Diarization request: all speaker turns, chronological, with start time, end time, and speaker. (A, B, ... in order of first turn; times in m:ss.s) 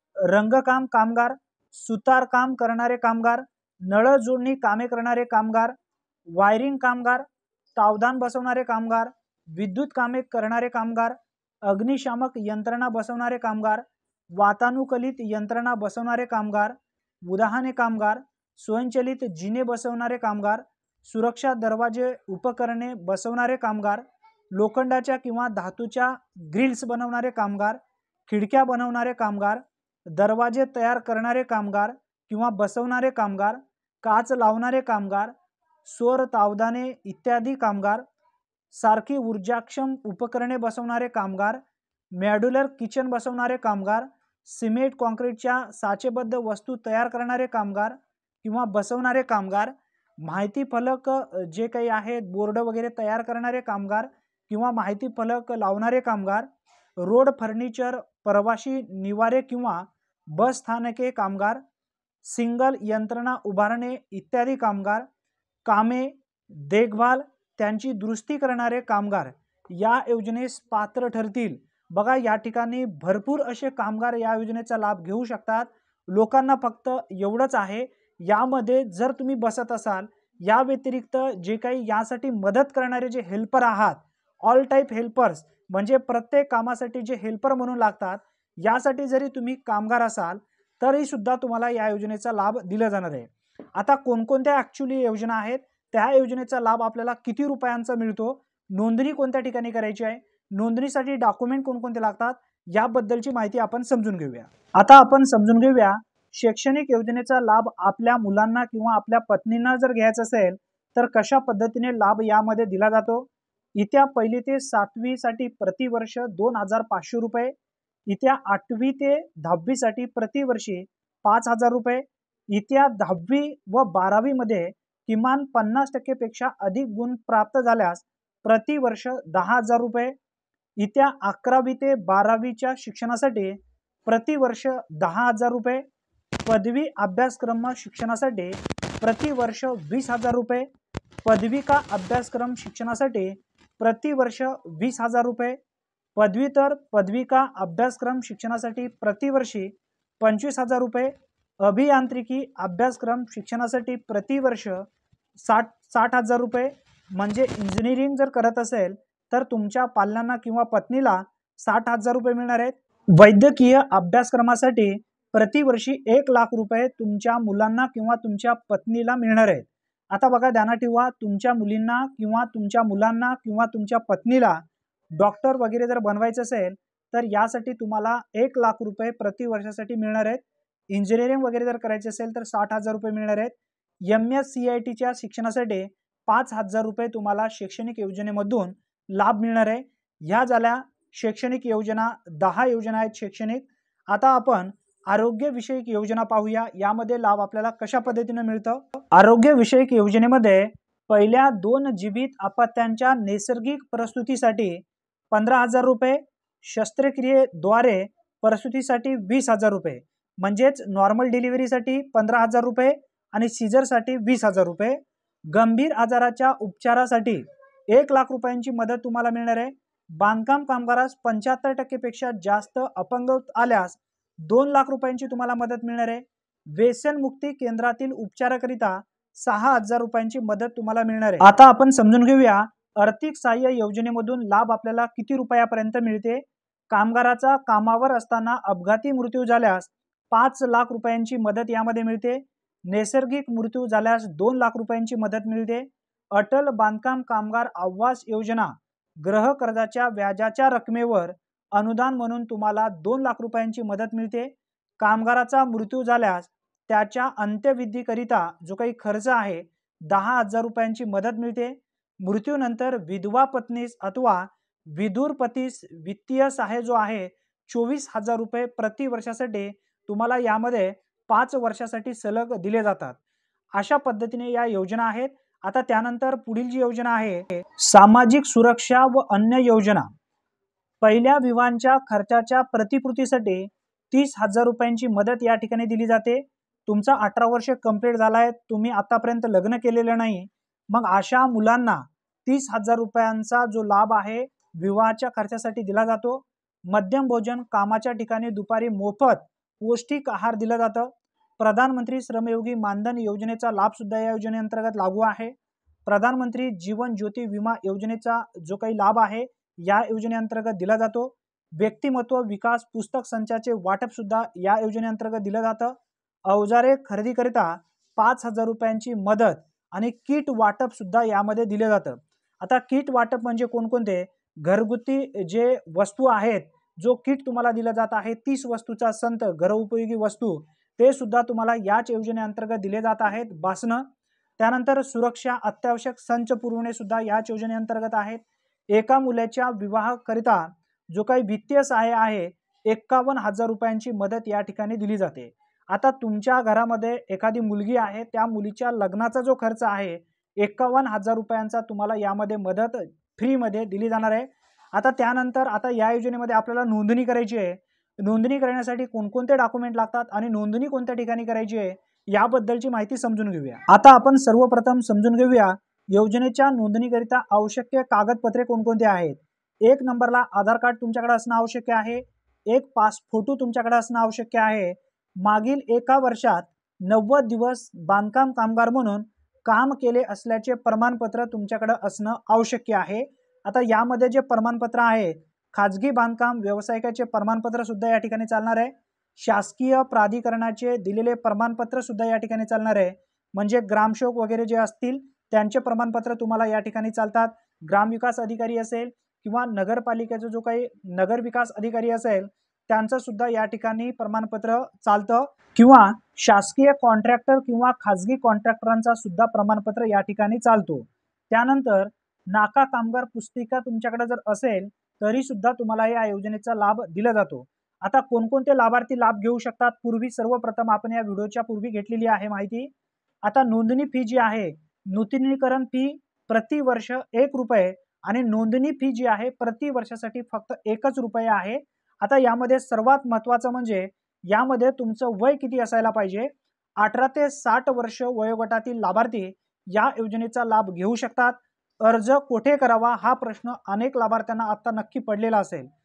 0:00.2-0:05.7 A
0:06.3-0:35.3 A
0:35.8-0:38.0 A
0:38.7-0:41.6 A
0:42.1-0:56.5 A
0:57.0-1:01.6 A
1:02.2-1:05.1 A
1:05.6-1:57.5 A
1:58.1-2:10.2 A
2:10.8-2:15.8 A
2:16.4-2:20.7 A
2:21.2-2:25.6 A
2:26.2-2:34.8 A
2:35.4-2:54.6 A
2:55.2-4:33.2 A
4:33.7-4:40.1 A
4:41.0-5:05.6 A
5:06.1-5:15.9 A
5:16.5-5:34.1 A
5:34.6-7:02.9 A
7:03.4-7:25.9 A